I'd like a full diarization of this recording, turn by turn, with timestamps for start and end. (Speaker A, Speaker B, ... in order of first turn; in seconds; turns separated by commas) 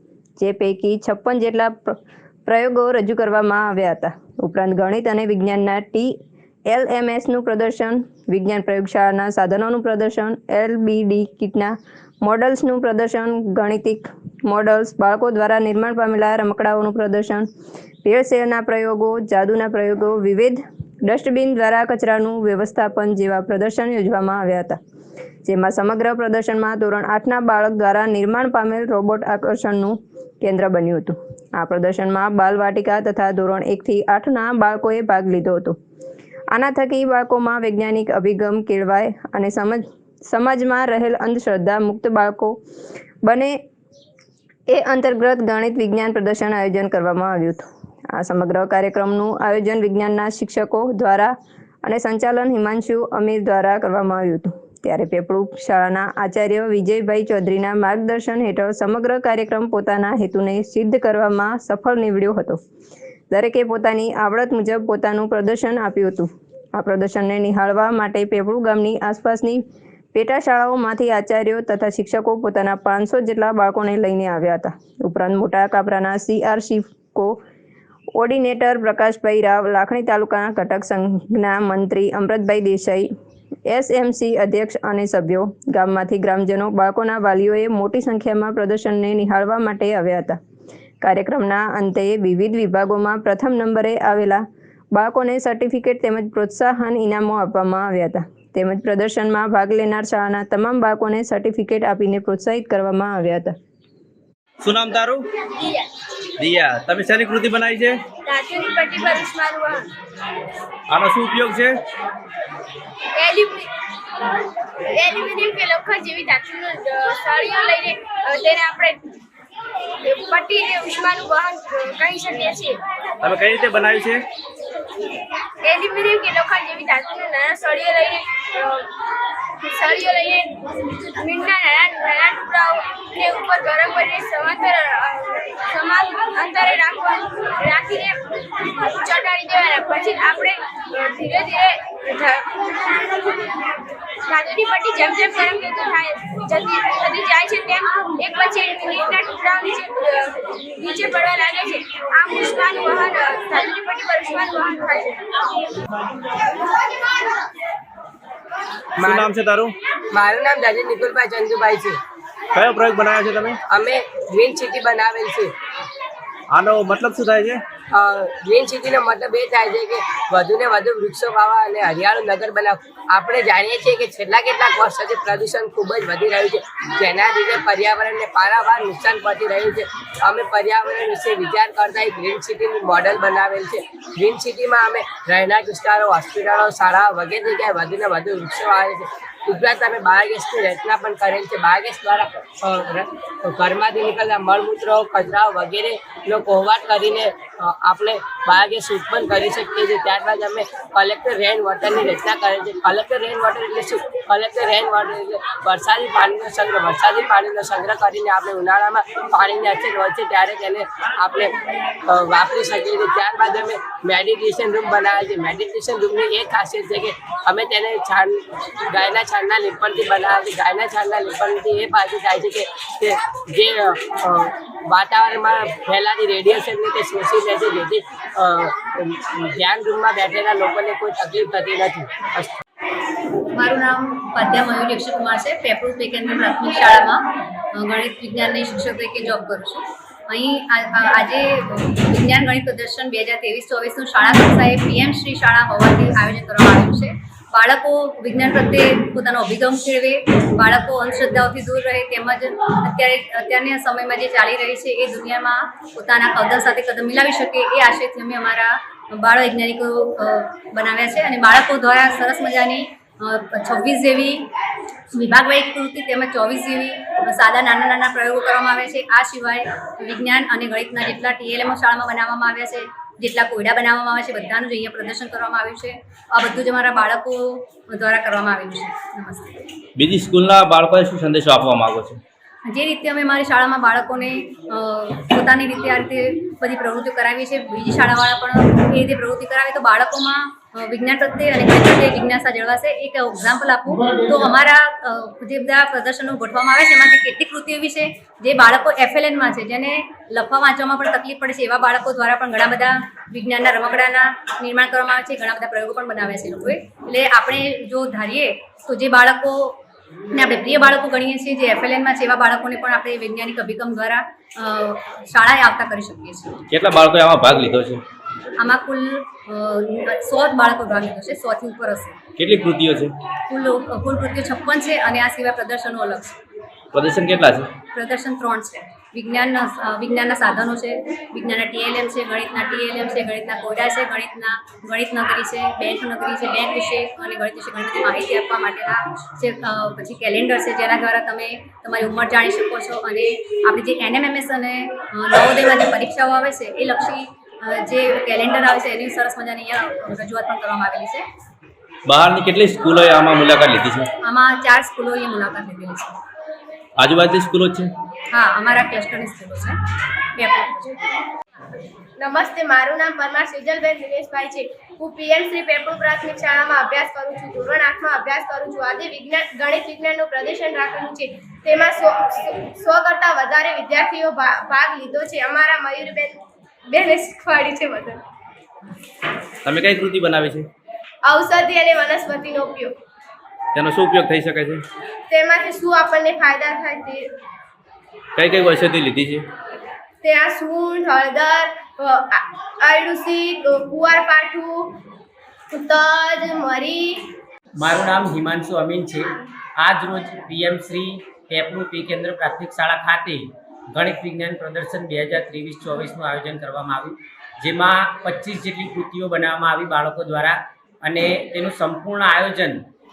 Speaker A: 0.4-6.1, Speaker A: 6.7-17.5, Speaker A: 18.1-24.8, Speaker A: 25.4-35.8, Speaker A: 36.5-42.6, Speaker A: 43.2-43.6, Speaker A: 44.7-62.6, Speaker A: 63.3-69.6, Speaker A: 70.1-77.4, Speaker A: 78.2-83.1, Speaker A: 83.7-90.4, Speaker A: 91.0-94.4, Speaker A: 94.9-103.5, Speaker B: 104.6-105.2, Speaker B: 106.4-108.0, Speaker C: 108.3-109.9, Speaker D: 109.0-109.5, Speaker B: 110.9-111.8, Speaker C: 113.2-113.7, Speaker D: 115.0-116.3, Speaker C: 115.1-119.0, Speaker C: 120.0-122.8, Speaker B: 123.2-124.2, Speaker C: 125.6-128.8, Speaker C: 129.6-138.2, Speaker C: 138.8-142.5, Speaker C: 144.3-155.2, Speaker E: 159.0-159.4, Speaker B: 159.0-159.7, Speaker E: 160.1-162.0, Speaker B: 162.6-163.6, Speaker E: 163.7-165.5, Speaker B: 166.5-167.6, Speaker E: 167.9-211.5, Speaker E: 212.1-232.6, Speaker F: 233.5-237.2, Speaker F: 237.7-264.5, Speaker F: 265.1-279.7, Speaker B: 280.0-282.2, Speaker F: 282.7-309.8, Speaker F: 310.3-316.6, Speaker B: 316.7-318.0, Speaker F: 318.6-322.2, Speaker B: 322.4-323.1, Speaker F: 323.5-326.4, Speaker B: 326.9-327.7, Speaker F: 327.9-351.2, Speaker B: 352.1-354.1, Speaker F: 354.2-356.2, Speaker B: 357.0-357.9, Speaker F: 358.3-359.8, Speaker F: 360.4-361.0, Speaker D: 362.2-378.2, Speaker B: 379.6-380.7, Speaker D: 381.2-382.9, Speaker B: 383.8-384.8, Speaker D: 385.3-387.3, Speaker B: 388.4-389.4, Speaker D: 390.2-394.9, Speaker D: 395.7-397.2, Speaker G: 397.8-412.8